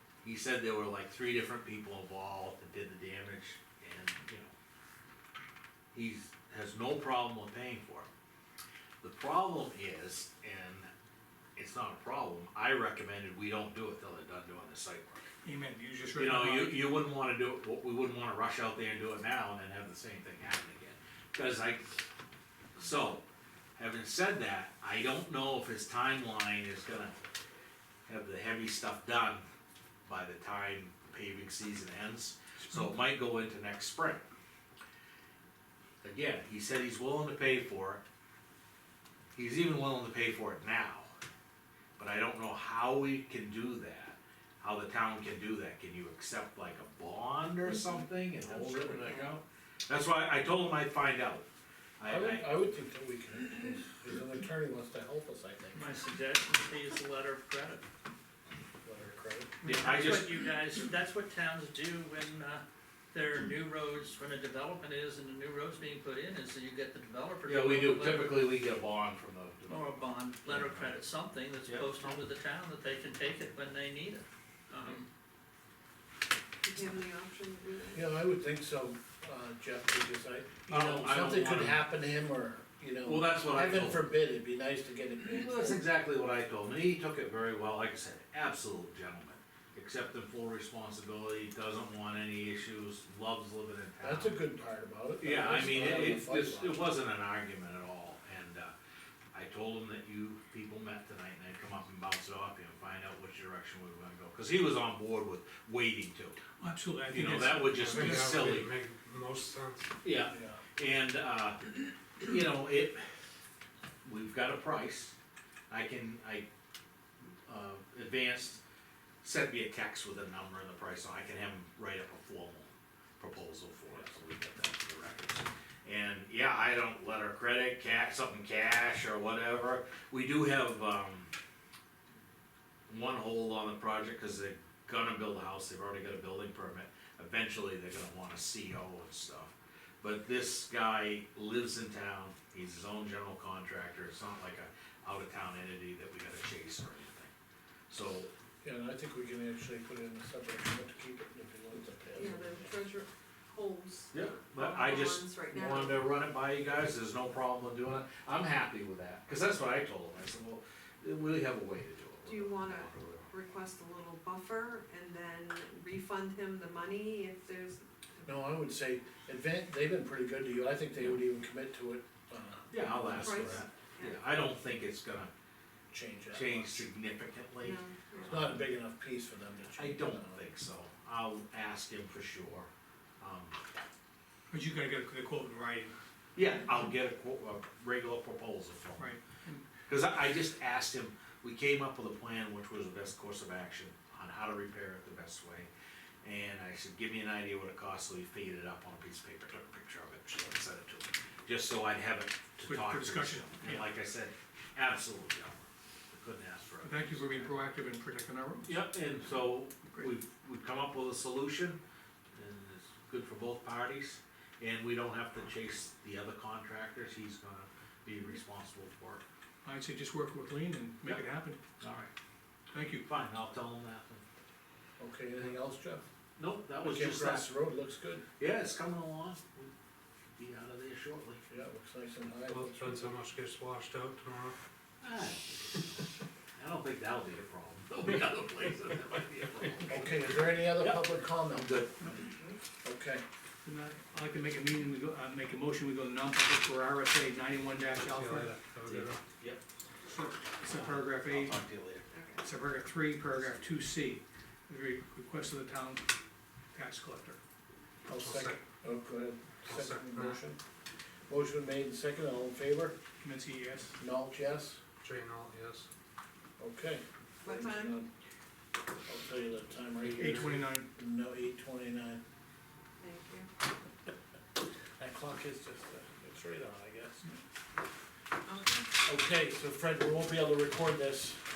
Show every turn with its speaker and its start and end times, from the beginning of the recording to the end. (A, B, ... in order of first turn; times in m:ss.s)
0:00.2-0:04.5 A
0:05.9-0:08.1 A
0:09.0-0:10.9 A
0:11.6-0:15.2 A
0:15.4-0:16.9 B
0:16.1-0:22.0 A
0:22.8-0:23.2 A
0:23.8-0:27.2 A
0:28.1-0:29.4 A
0:30.0-0:34.2 A
0:36.0-0:38.0 A
0:39.3-0:41.1 A
0:42.0-0:51.4 A
0:48.4-0:49.3 C
0:52.0-0:52.5 A
0:52.0-0:55.9 D
0:55.7-0:57.8 E
0:58.8-0:59.5 D
0:59.6-1:00.3 A
0:59.6-1:08.4 E
1:07.4-1:10.9 A
1:09.7-1:15.0 E
1:11.6-1:12.2 A
1:16.6-1:18.2 C
1:17.9-1:25.8 D
1:20.7-1:21.9 A
1:23.0-1:24.1 A
1:25.2-1:34.4 A
1:34.0-1:36.8 D
1:35.2-1:38.7 A
1:39.3-1:46.4 A
1:46.6-1:48.5 B
1:47.1-1:48.7 A
1:47.7-1:49.9 F
1:50.0-1:51.7 A
1:50.3-1:50.6 D
1:52.2-1:53.0 A
1:54.0-1:55.1 A
1:55.7-1:56.4 A
1:57.5-1:58.6 A
1:59.2-2:11.3 A
2:12.9-2:19.5 A
2:20.0-2:27.3 A
2:27.9-2:28.3 A
2:28.6-2:32.8 D
2:32.1-2:36.0 C
2:34.1-2:43.3 A
2:42.2-2:47.8 C
2:48.2-2:53.6 D
2:52.7-2:55.3 A
2:53.1-2:54.2 C
2:55.9-2:56.8 D
2:56.3-2:58.6 A
2:57.6-2:58.3 C
2:58.2-3:00.4 D
2:59.8-3:02.7 A
3:03.2-3:03.6 A
3:04.5-3:05.9 B
3:06.3-3:09.1 A
3:09.0-3:09.6 B
3:09.9-3:15.7 A
3:16.2-3:27.5 A
3:22.6-3:23.9 B
3:26.8-3:28.7 B
3:28.6-3:31.8 A
3:32.3-3:39.2 A
3:39.6-3:41.6 B
3:41.8-3:42.1 A
3:42.7-3:43.0 B
3:43.0-3:44.2 A
3:45.0-3:46.0 D
3:46.4-3:47.5 A
3:46.8-3:48.2 D
3:48.4-3:49.7 A
3:50.3-3:51.4 A
3:51.5-3:53.2 D
3:52.5-3:54.6 F
3:55.0-4:02.0 A
3:59.9-4:01.8 D
4:02.8-4:03.2 D
4:03.6-4:08.5 B
4:08.0-4:09.2 F
4:08.8-4:09.6 A
4:10.0-4:11.6 B
4:10.7-4:12.0 A
4:12.1-4:12.4 C
4:12.4-4:16.0 B
4:16.7-4:17.4 B
4:18.1-4:18.6 F
4:18.1-4:20.6 D
4:19.7-4:20.4 F
4:21.3-4:23.0 D
4:23.2-4:24.0 B
4:24.0-4:24.8 D
4:25.0-4:25.9 F
4:26.6-4:28.1 D
4:27.4-4:28.0 C
4:29.0-4:32.2 D
4:30.1-4:30.9 B
4:33.0-4:33.5 C
4:35.0-4:37.3 D
4:38.4-4:38.9 C
4:39.0-4:41.4 D